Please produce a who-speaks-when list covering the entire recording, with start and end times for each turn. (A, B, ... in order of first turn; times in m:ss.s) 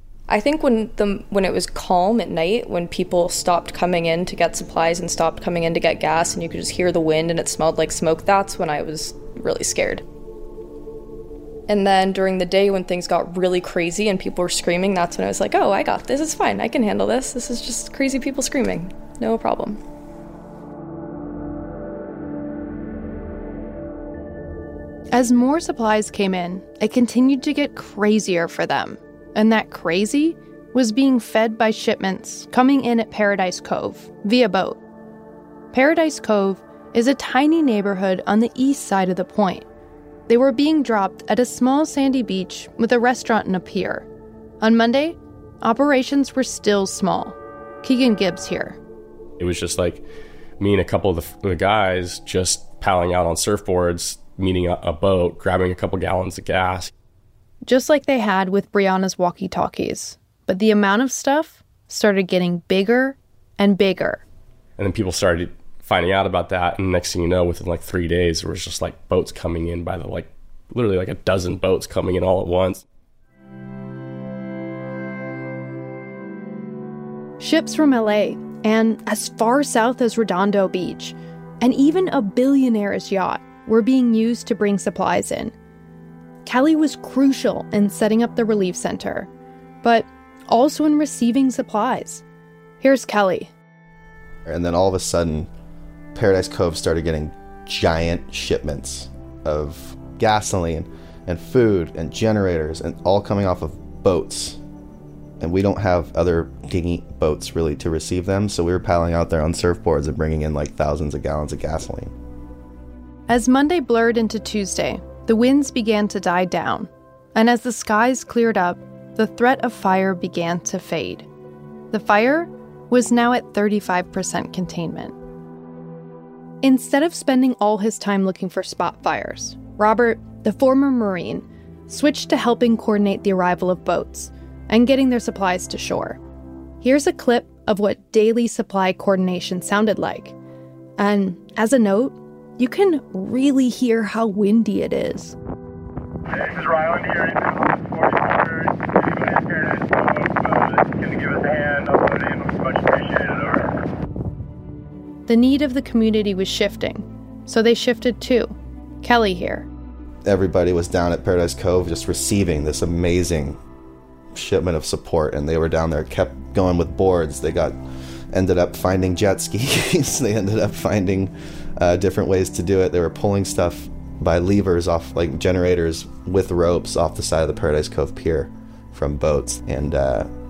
0:00.3-0:10.0 A
0:11.7-0:19.8 A
0:25.1-0:34.8 B
0:35.7-0:39.6 B
0:40.3-0:44.1 B
0:44.6-0:48.8 B
0:49.4-0:50.0 C
0:50.6-0:56.9 C
0:57.7-1:04.2 B
1:04.8-1:12.8 C
1:17.4-1:25.5 B
1:26.4-1:29.3 B
1:29.8-1:32.2 B
1:32.8-1:33.5 B
1:34.5-1:35.5 D
1:36.1-1:44.6 D
1:45.4-1:52.1 D
1:53.3-2:01.3 B
2:01.9-2:05.2 B
2:06.6-2:16.2 B
2:16.8-2:20.4 B
2:21.0-2:25.4 B
2:26.3-2:33.8 E
2:35.3-2:39.7 B
2:40.2-2:43.6 D
2:44.3-2:47.8 D
2:48.3-3:00.3 D